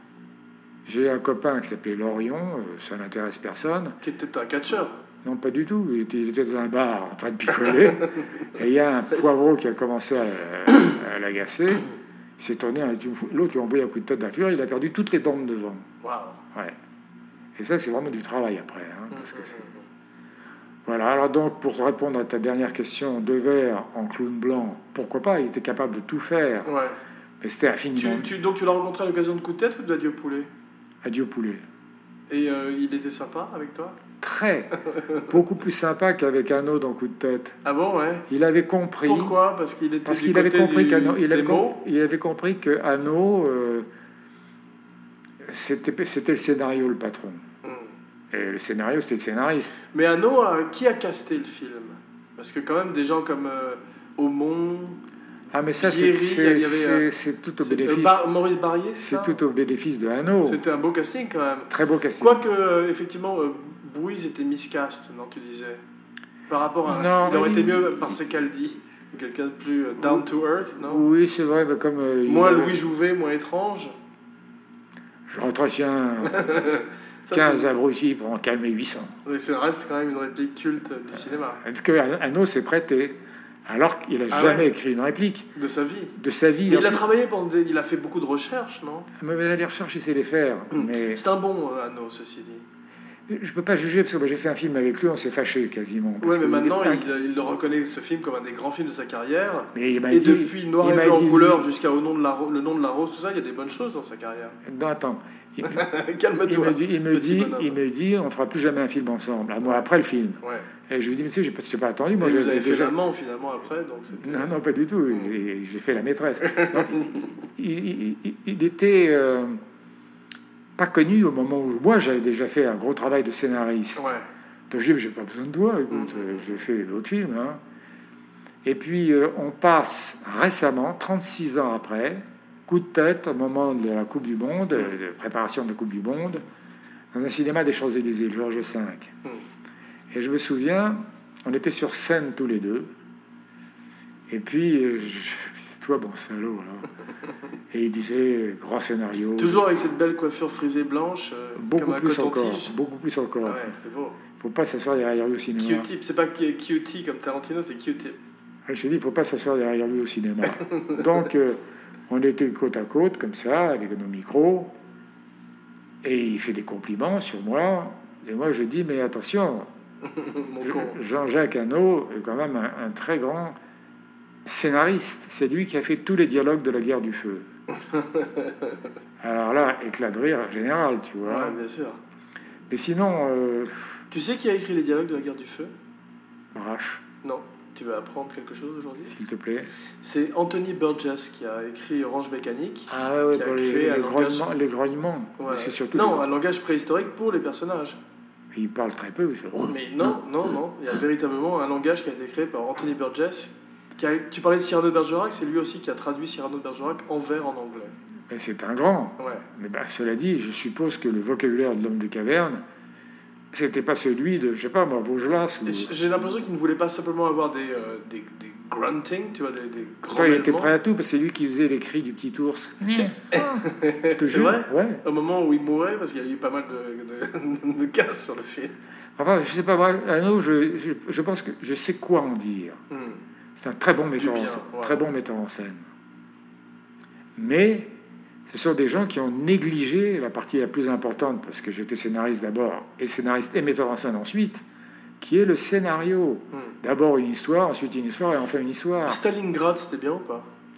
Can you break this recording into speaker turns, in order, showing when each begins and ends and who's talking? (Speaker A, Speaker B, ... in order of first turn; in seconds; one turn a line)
Speaker A: 0.9-4.0
Speaker B: 4.0-5.0
Speaker A: 5.2-11.9
Speaker A: 12.4-15.9
Speaker B: 16.0-16.4
Speaker A: 17.6-19.6
Speaker B: 19.1-19.8
Speaker A: 20.9-26.7
Speaker B: 26.6-27.0
Speaker A: 27.4-28.3
Speaker B: 27.9-30.5
Speaker A: 31.0-31.6
Speaker B: 32.3-34.0
Speaker A: 34.2-37.6
Speaker B: 34.9-35.3
Speaker B: 37.6-38.3
Speaker A: 38.3-39.4
Speaker B: 39.0-41.8
Speaker A: 40.0-43.9
Speaker A: 45.4-47.4
Speaker B: 47.6-47.9
Speaker A: 48.3-49.8
Speaker B: 49.9-55.0
Speaker A: 55.5-58.2
Speaker B: 55.8-57.1
Speaker B: 57.6-59.4
Speaker A: 59.0-60.6
Speaker B: 60.4-65.8
Speaker A: 61.7-62.4
Speaker B: 66.5-71.0
Speaker A: 66.9-68.0
Speaker A: 70.9-72.8
Speaker B: 72.3-73.9
Speaker A: 75.3-76.8
Speaker B: 76.3-77.7
Speaker A: 77.3-79.2
Speaker B: 79.3-81.6
Speaker A: 81.6-85.5
Speaker B: 84.3-84.7
Speaker B: 85.6-86.2
Speaker A: 86.2-87.0
Speaker B: 86.7-89.1
Speaker A: 89.2-91.2
Speaker B: 90.7-92.6
Speaker A: 93.3-97.1
Speaker B: 96.2-104.6
Speaker A: 99.7-101.7
Speaker A: 104.6-105.9
Speaker B: 105.6-107.8
Speaker A: 106.5-113.0
Speaker B: 109.6-109.9
Speaker B: 110.4-110.7
Speaker B: 112.2-114.5
Speaker A: 114.2-119.6
Speaker B: 116.4-117.3
Speaker A: 120.8-124.1
Speaker B: 124.0-124.2
Speaker A: 124.7-127.6
Speaker B: 125.9-126.5
Speaker A: 128.6-136.4
Speaker A: 137.1-139.1
Speaker A: 140.1-142.9
Speaker A: 144.3-146.9
Speaker A: 147.7-149.7
Speaker B: 149.4-152.7
Speaker A: 151.6-153.7
Speaker B: 153.4-154.2
Speaker A: 154.4-155.9
Speaker B: 155.6-158.2
Speaker A: 158.7-164.7
Speaker B: 160.6-161.0
Speaker A: 166.0-169.7
Speaker B: 170.0-171.0
Speaker A: 170.6-173.6
Speaker A: 174.4-177.5
Speaker B: 177.7-178.8
Speaker A: 179.2-181.6
Speaker B: 181.2-182.0
Speaker A: 182.7-184.0
Speaker B: 184.1-185.7
Speaker A: 186.5-187.0
Speaker B: 187.2-189.2
Speaker A: 189.1-189.7
Speaker B: 190.0-194.5
Speaker A: 192.9-196.2
Speaker B: 195.4-198.0
Speaker A: 198.5-200.1
Speaker B: 199.7-207.9
Speaker A: 208.3-212.6
Speaker B: 209.2-209.4
Speaker A: 213.5-215.9
Speaker B: 215.7-220.7
Speaker A: 220.1-225.0
Speaker B: 223.3-228.7
Speaker A: 229.2-232.8
Speaker B: 232.9-233.2
Speaker A: 233.6-235.9
Speaker B: 234.2-235.1
Speaker A: 237.4-237.9
Speaker A: 238.5-244.6
Speaker A: 245.2-249.2
Speaker B: 249.1-250.5